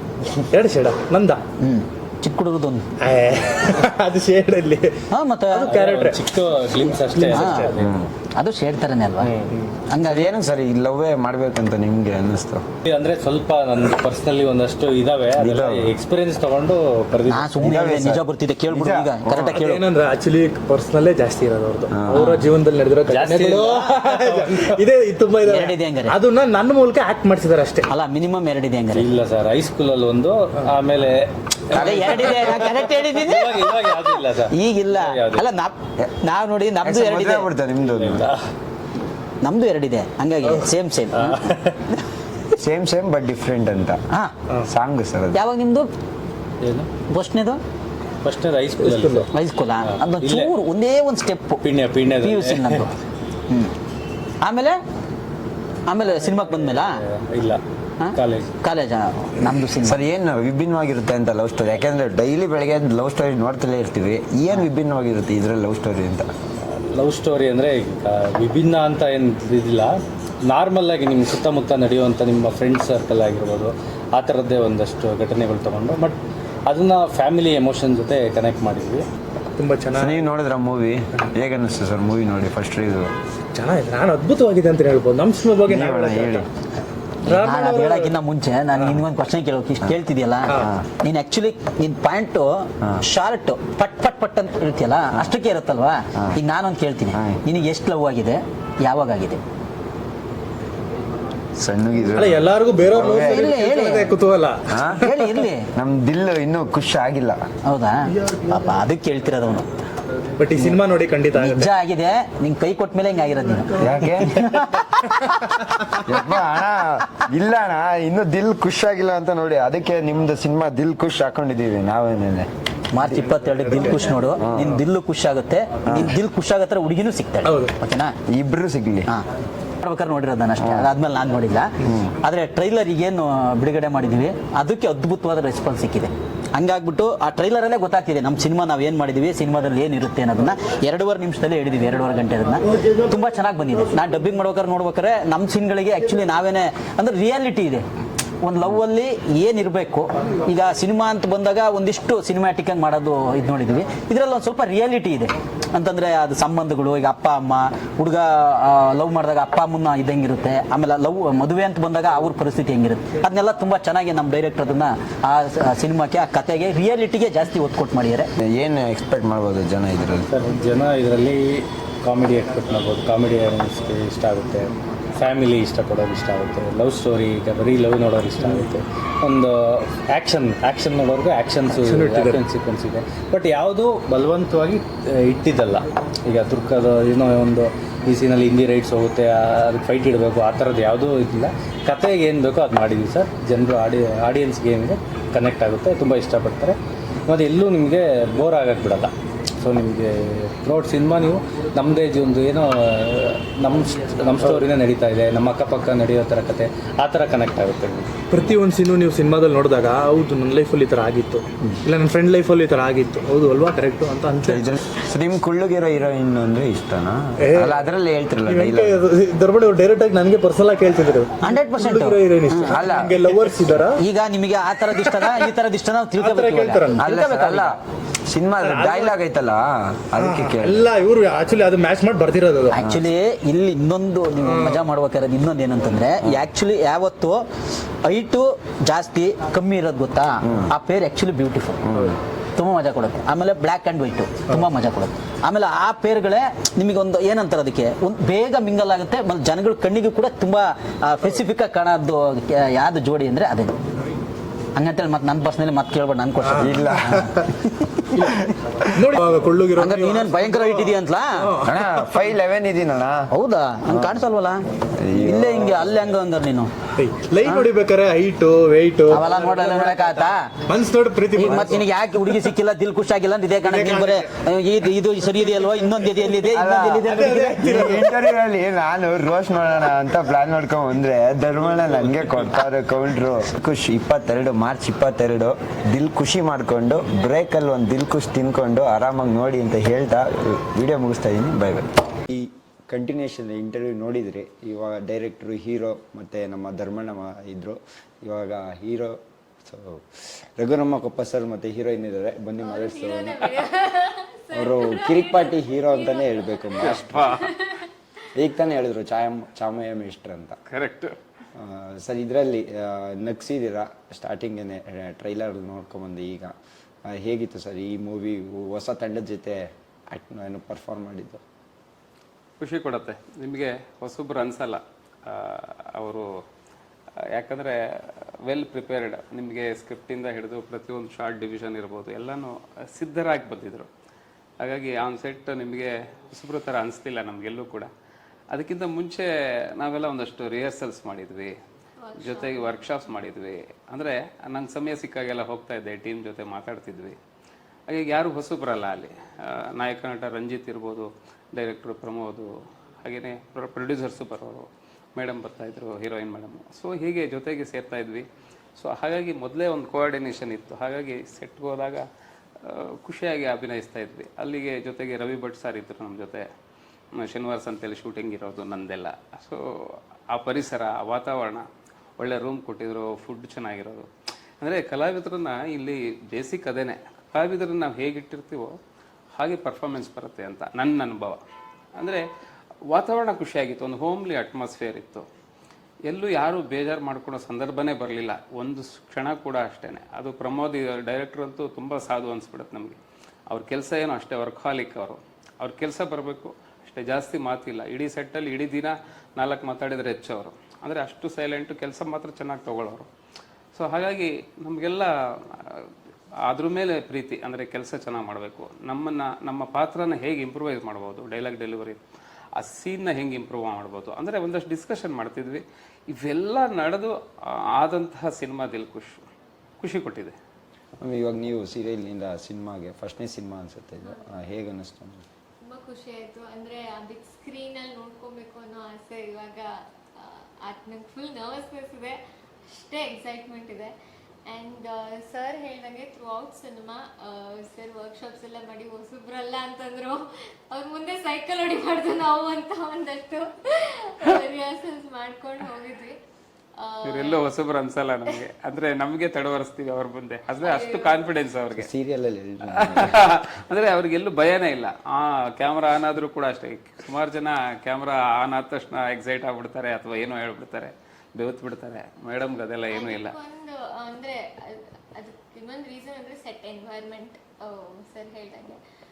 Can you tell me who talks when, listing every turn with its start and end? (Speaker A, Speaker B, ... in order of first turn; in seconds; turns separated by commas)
Speaker A: 0.4-1.4, Speaker B: 1.6-2.9, Speaker A: 3.0-7.9, Speaker B: 5.1-5.8, Speaker C: 5.6-8.0, Speaker B: 7.3-7.7, Speaker D: 7.7-8.1, Speaker B: 8.3-10.3, Speaker D: 10.0-12.6, Speaker C: 12.8-17.6, Speaker D: 15.4-15.9, Speaker B: 17.2-19.8, Speaker D: 17.6-19.6, Speaker A: 19.4-27.9, Speaker D: 21.9-22.3, Speaker B: 22.1-22.5, Speaker C: 23.1-24.8, Speaker B: 25.4-26.2, Speaker B: 27.9-29.1, Speaker C: 28.9-35.5, Speaker B: 31.7-37.5, Speaker D: 31.8-32.6, Speaker D: 36.8-38.3, Speaker C: 37.8-38.4, Speaker B: 39.4-42.0, Speaker C: 41.1-41.9, Speaker D: 42.6-44.0, Speaker D: 44.7-45.4, Speaker B: 45.3-45.9, Speaker C: 46.6-46.9, Speaker B: 47.0-47.6, Speaker C: 48.2-49.3, Speaker A: 48.8-49.3, Speaker B: 49.3-51.6, Speaker C: 49.8-50.5, Speaker C: 51.6-52.9, Speaker B: 52.2-52.9, Speaker B: 53.5-53.7, Speaker B: 54.4-54.8, Speaker B: 55.9-57.0, Speaker C: 56.0-57.6, Speaker B: 58.0-60.0, Speaker C: 58.1-58.5, Speaker D: 59.8-66.3, Speaker C: 66.6-69.9, Speaker C: 70.4-79.1, Speaker A: 79.6-80.3, Speaker D: 80.0-83.1, Speaker A: 83.5-86.5, Speaker D: 85.7-86.5, Speaker A: 87.2-88.2, Speaker B: 87.3-99.4, Speaker A: 88.7-89.0, Speaker D: 90.5-90.9, Speaker D: 97.1-97.4, Speaker D: 101.6-103.5, Speaker A: 102.2-105.4, Speaker B: 103.1-104.1, Speaker D: 104.7-105.1, Speaker B: 105.0-105.7, Speaker D: 105.8-107.4, Speaker B: 107.7-109.7, Speaker A: 110.4-111.7, Speaker B: 111.3-115.6, Speaker D: 113.8-114.4, Speaker D: 116.0-122.5, Speaker B: 122.9-128.2, Speaker D: 124.4-124.8, Speaker D: 125.9-126.1, Speaker A: 127.4-127.7, Speaker D: 128.3-129.1, Speaker B: 129.8-147.9, Speaker D: 130.6-130.9, Speaker D: 131.8-132.1, Speaker B: 148.4-168.3, Speaker D: 168.4-170.3, Speaker C: 170.2-208.2, Speaker A: 181.7-182.4, Speaker A: 208.3-214.8, Speaker D: 214.5-219.1, Speaker A: 217.4-217.9, Speaker A: 218.4-224.0, Speaker B: 221.4-222.8, Speaker D: 222.7-223.2, Speaker B: 223.9-227.8, Speaker A: 224.9-225.5, Speaker A: 226.2-227.0, Speaker D: 227.0-230.9, Speaker A: 228.6-229.2, Speaker A: 230.2-232.8, Speaker B: 232.7-237.5, Speaker D: 232.8-233.0, Speaker A: 234.4-234.8, Speaker B: 238.0-241.8, Speaker D: 240.4-240.7, Speaker D: 241.8-242.2, Speaker B: 242.6-253.7, Speaker B: 254.8-258.3, Speaker A: 256.4-257.5, Speaker D: 256.6-257.2, Speaker A: 258.9-262.2, Speaker B: 259.8-261.6, Speaker D: 261.6-263.3, Speaker B: 263.3-266.7, Speaker D: 263.9-264.2, Speaker D: 265.0-265.9, Speaker A: 267.0-272.4, Speaker B: 267.4-267.7, Speaker B: 269.1-270.5, Speaker B: 271.3-277.6, Speaker D: 271.5-271.8, Speaker A: 273.6-274.3, Speaker D: 276.5-303.4, Speaker A: 277.1-278.4, Speaker E: 302.6-307.9, Speaker D: 304.5-307.4, Speaker F: 306.8-307.6, Speaker D: 308.4-310.6, Speaker F: 310.7-311.1, Speaker D: 311.6-316.6, Speaker D: 317.1-321.4, Speaker F: 322.6-326.3, Speaker F: 327.4-333.9, Speaker F: 334.6-337.9, Speaker F: 338.5-341.6, Speaker E: 342.0-342.8, Speaker F: 342.2-347.2, Speaker F: 347.9-352.5, Speaker F: 353.0-358.3, Speaker F: 358.8-362.1, Speaker F: 362.6-366.5, Speaker F: 367.2-371.7, Speaker F: 372.2-374.1, Speaker F: 374.6-378.8, Speaker F: 379.4-381.4, Speaker F: 382.0-382.2, Speaker F: 382.9-385.3, Speaker F: 386.1-393.0, Speaker F: 393.5-403.1, Speaker F: 403.8-405.9, Speaker F: 406.5-412.0, Speaker F: 412.6-417.1, Speaker F: 417.8-419.2, Speaker F: 419.8-420.4, Speaker D: 421.0-425.2, Speaker E: 424.0-424.3, Speaker E: 425.6-433.9, Speaker E: 434.5-446.2, Speaker E: 446.8-447.4, Speaker F: 447.1-451.9, Speaker E: 450.6-451.2, Speaker D: 451.7-453.3, Speaker F: 452.8-463.4, Speaker E: 462.9-468.8